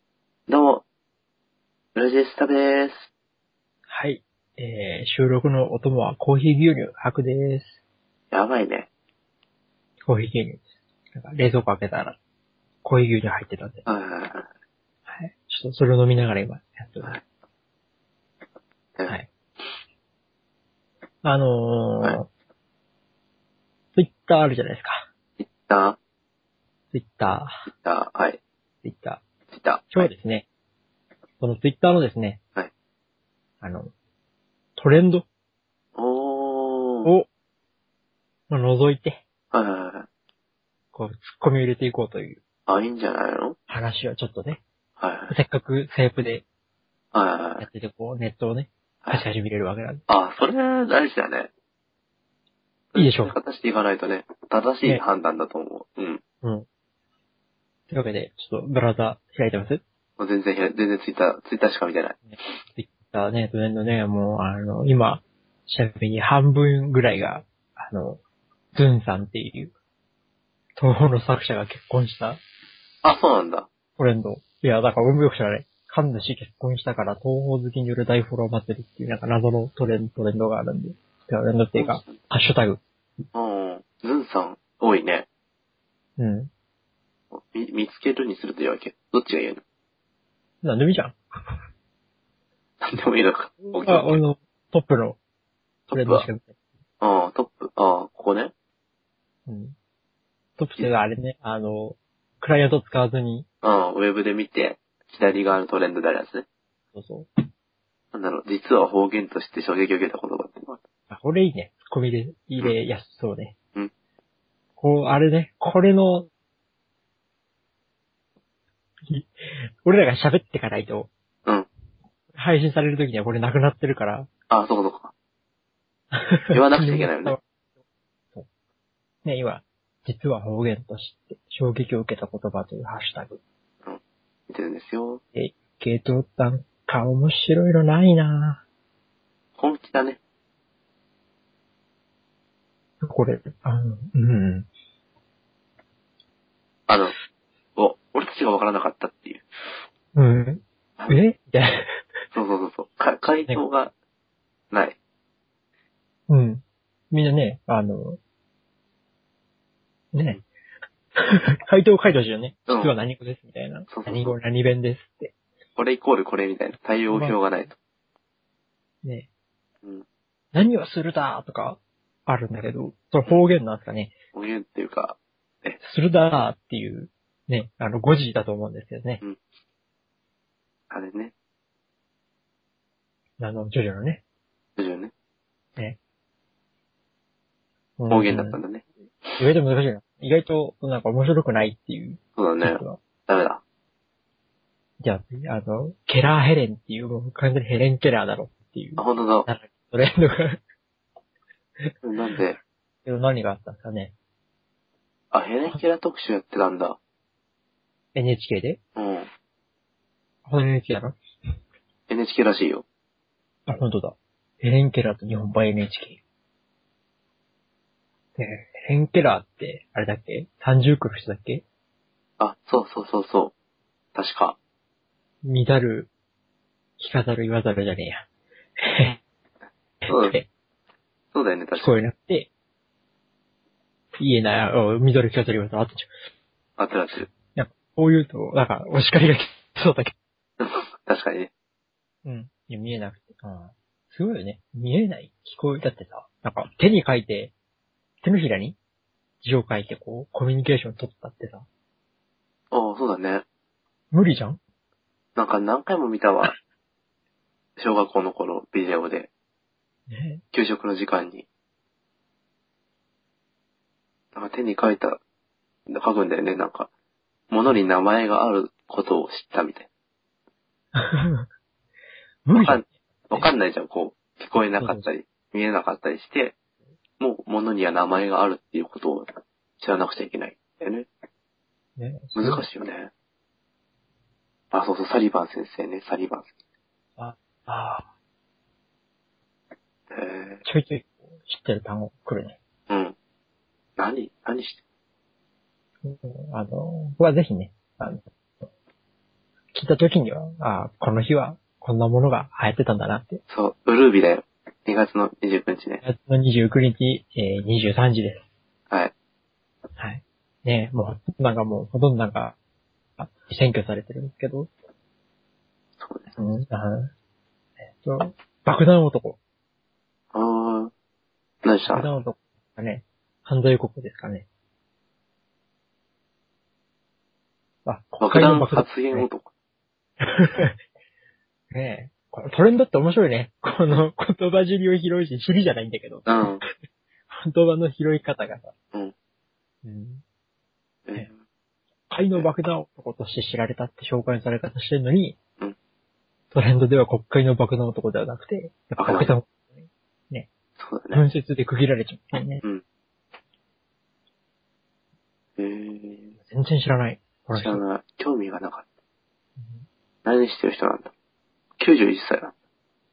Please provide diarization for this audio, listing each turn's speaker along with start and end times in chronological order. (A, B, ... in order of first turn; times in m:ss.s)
0:00.5-0:00.8 A
0:02.0-0:03.1 A
0:03.9-0:07.8 B
0:08.3-0:08.9 A
0:10.0-0:12.2 B
0:12.8-0:13.8 B
0:13.8-0:14.5 A
0:15.1-0:17.2 B
0:21.2-0:22.3 B
0:23.9-0:25.0 B
0:25.4-0:26.0 A
0:26.9-0:27.6 B
0:27.7-0:28.4 A
0:28.8-0:29.2 B
0:29.5-0:30.1 A
0:29.9-0:30.4 B
0:31.4-0:32.4 B
0:33.6-0:33.9 B
0:34.8-0:35.2 B
0:36.0-0:37.1 A
0:38.5-0:39.2 B
0:39.5-0:40.1 A
0:40.9-0:42.4 B
0:42.7-0:43.6 A
0:43.7-0:44.6 B
0:45.0-0:45.3 A
0:45.3-0:46.4 B
0:47.1-0:47.6 A
0:47.6-0:50.0 B
0:50.1-0:51.5 A
0:52.9-0:56.2 A
0:53.0-0:53.4 B
0:57.9-0:59.8 B
1:00.2-1:02.2 A
1:02.3-1:08.2 B
1:08.7-1:09.7 B
1:10.8-1:12.4 B
1:13.0-1:13.7 A
1:14.0-1:22.8 B
1:21.8-1:22.2 A
1:23.3-1:25.3 A
1:26.2-1:26.5 B
1:27.3-1:29.6 A
1:30.6-1:31.2 B
1:32.8-1:34.2 A
1:33.6-1:35.2 B
1:35.9-1:36.2 A
1:35.9-1:36.6 B
1:37.0-1:38.5 A
1:39.5-1:39.8 B
1:40.6-1:43.5 B
1:43.6-1:46.4 A
1:46.9-1:47.3 B
1:48.1-1:50.8 A
1:51.1-1:53.5 B
1:54.8-1:56.3 B
1:59.1-2:01.1 B
2:02.3-2:04.3 B
2:04.5-2:05.1 A
2:06.1-2:07.4 B
2:06.5-2:07.4 A
2:09.2-2:13.4 B
2:13.8-2:15.2 A
2:15.3-2:18.6 B
2:19.6-2:20.2 A
2:23.0-2:24.7 B
2:26.9-2:27.1 A
2:27.8-2:29.4 A
2:30.1-2:32.0 B
2:32.3-2:33.9 A
2:34.7-2:35.0 A
2:36.3-2:38.2 B
2:40.1-2:40.4 B
2:41.2-2:45.3 B
2:42.7-2:42.9 A
2:43.9-2:44.4 A
2:45.8-2:47.8 A
2:47.1-2:47.4 B
2:49.0-2:49.3 B
2:50.5-2:54.2 B
2:54.3-2:55.8 A
2:55.8-2:59.2 B
3:00.9-3:01.3 A
3:03.4-3:04.2 B
3:04.8-3:05.1 A
3:08.0-3:08.6 B
3:08.1-3:09.4 A
3:09.4-3:13.0 B
3:12.4-3:13.6 A
3:15.0-3:20.6 B
3:19.0-3:19.5 A
3:22.0-3:22.6 A
3:23.0-3:24.1 B
3:25.3-3:27.0 A
3:28.1-3:28.8 B
3:29.0-3:29.3 A
3:30.4-3:31.2 B
3:32.1-3:32.8 A
3:33.7-3:36.2 B
3:38.4-3:41.6 B
3:42.4-3:43.5 A
3:44.1-3:44.6 A
3:45.4-3:46.1 B
3:47.0-3:48.2 B
3:48.8-3:49.2 B
3:50.0-3:50.5 B
3:50.1-3:50.4 A
3:51.3-3:52.0 A
3:51.8-3:52.5 B
3:54.2-3:56.1 B
3:56.8-3:57.3 A
3:57.5-4:00.1 B
4:00.6-4:01.5 A
4:02.2-4:07.5 B
4:08.2-4:08.8 B
4:09.4-4:11.6 B
4:12.7-4:13.4 A
4:14.1-4:14.6 B
4:15.4-4:16.5 A
4:17.8-4:19.3 A
4:20.1-4:20.4 B
4:20.5-4:21.5 A
4:24.3-4:25.2 A
4:25.9-4:26.9 A
4:27.5-4:29.9 A
4:30.9-4:31.5 B
4:32.4-4:33.5 B
4:32.5-4:36.5 A
4:34.8-4:35.0 B
4:37.2-4:41.1 A
4:42.0-4:42.6 B
4:42.3-4:43.1 A
4:44.7-4:46.5 A
4:47.2-4:48.1 B
4:50.1-4:50.6 A
4:50.6-4:52.6 B
4:52.9-4:53.1 A
4:54.0-4:54.8 A
4:56.0-4:58.2 B
4:59.7-5:03.4 B
5:03.5-5:06.0 A
5:06.0-5:08.4 B
5:10.0-5:12.6 B
5:13.2-5:14.7 B
5:16.0-5:16.3 A
5:16.4-5:17.1 B
5:18.0-5:19.4 B
5:20.3-5:20.9 A
5:21.6-5:22.1 A
5:21.9-5:24.5 B
5:27.8-5:29.3 B
5:28.2-5:29.5 A
5:30.2-5:30.8 B
5:31.7-5:36.3 B
5:36.2-5:36.6 A
5:37.3-5:38.7 B
5:39.8-5:40.2 B
5:41.1-5:41.4 A
5:42.1-5:45.4 B
5:46.5-5:50.5 B
5:49.0-5:49.3 A
5:50.8-5:51.2 A
5:51.1-5:52.6 B
5:55.6-5:56.3 A
5:56.5-5:57.8 B
5:57.5-5:58.8 A
5:59.6-5:59.8 B
6:00.2-6:01.1 A
6:01.8-6:02.5 A